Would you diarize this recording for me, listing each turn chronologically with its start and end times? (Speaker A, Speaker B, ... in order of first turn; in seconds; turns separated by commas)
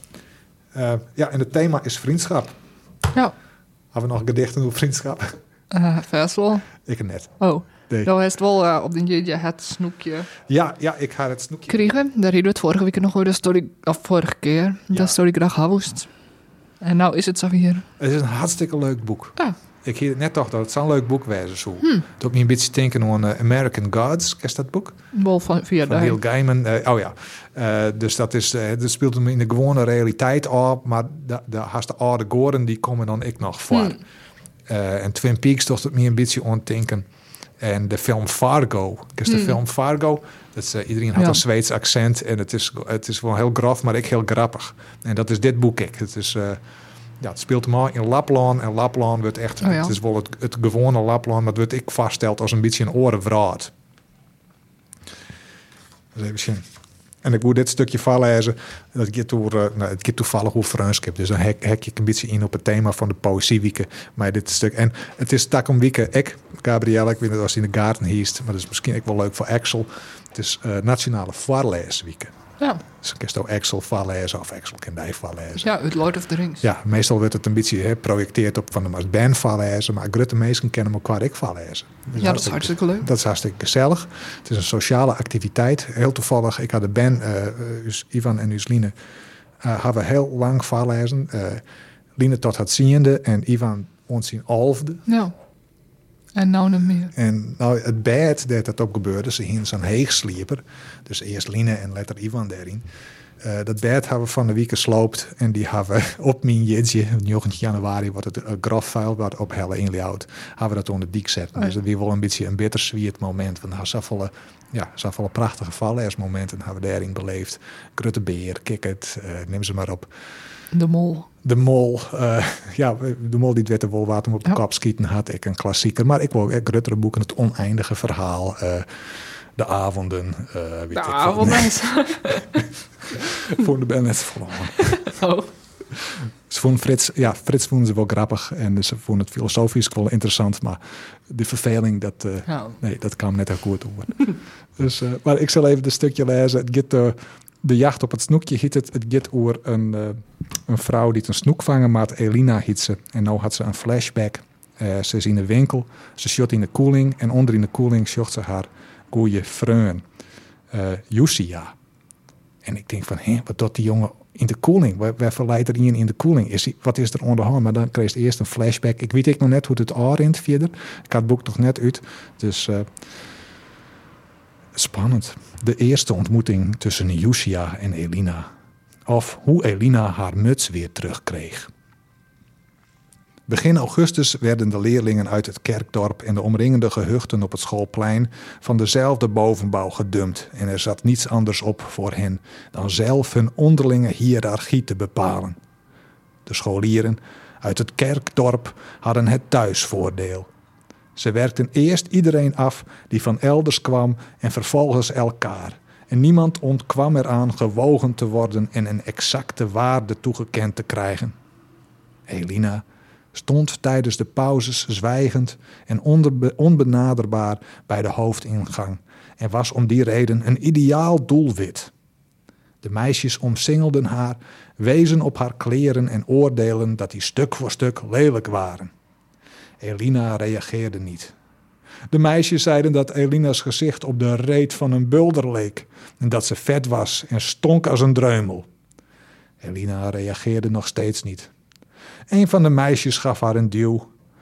Speaker A: 0.7-2.5, Speaker A: 3.9-5.3, Speaker B: 5.7-6.7, Speaker A: 6.8-7.3, Speaker B: 7.4-10.3, Speaker A: 10.5-11.9, Speaker B: 11.7-16.1, Speaker B: 16.8-17.8, Speaker A: 18.0-25.0, Speaker B: 25.1-26.2, Speaker A: 25.8-34.0, Speaker B: 33.7-34.0, Speaker A: 34.7-37.0, Speaker A: 37.6-46.6, Speaker B: 39.3-39.5, Speaker A: 47.2-53.7, Speaker B: 49.6-49.9, Speaker A: 56.1-56.6, Speaker A: 57.2-72.3, Speaker A: 72.9-75.7, Speaker B: 75.6-76.6, Speaker A: 76.6-88.9, Speaker B: 82.2-83.1, Speaker A: 89.6-91.6, Speaker A: 92.2-95.0, Speaker B: 95.1-95.3, Speaker B: 96.3-97.1, Speaker A: 97.1-102.8, Speaker A: 103.4-120.1, Speaker B: 120.7-121.3, Speaker A: 121.4-128.8, Speaker A: 129.6-132.6, Speaker B: 130.9-132.5, Speaker A: 133.1-135.1, Speaker B: 134.9-135.5, Speaker A: 136.0-160.0, Speaker B: 142.5-142.7, Speaker A: 160.7-161.7, Speaker A: 162.6-172.9, Speaker A: 174.7-178.5, Speaker A: 179.1-181.7, Speaker A: 183.5-195.6, Speaker A: 196.4-200.5, Speaker A: 201.2-211.3, Speaker A: 212.3-221.9, Speaker A: 222.8-228.9, Speaker A: 229.8-231.3, Speaker A: 232.1-238.7, Speaker A: 239.6-241.5, Speaker A: 242.3-244.1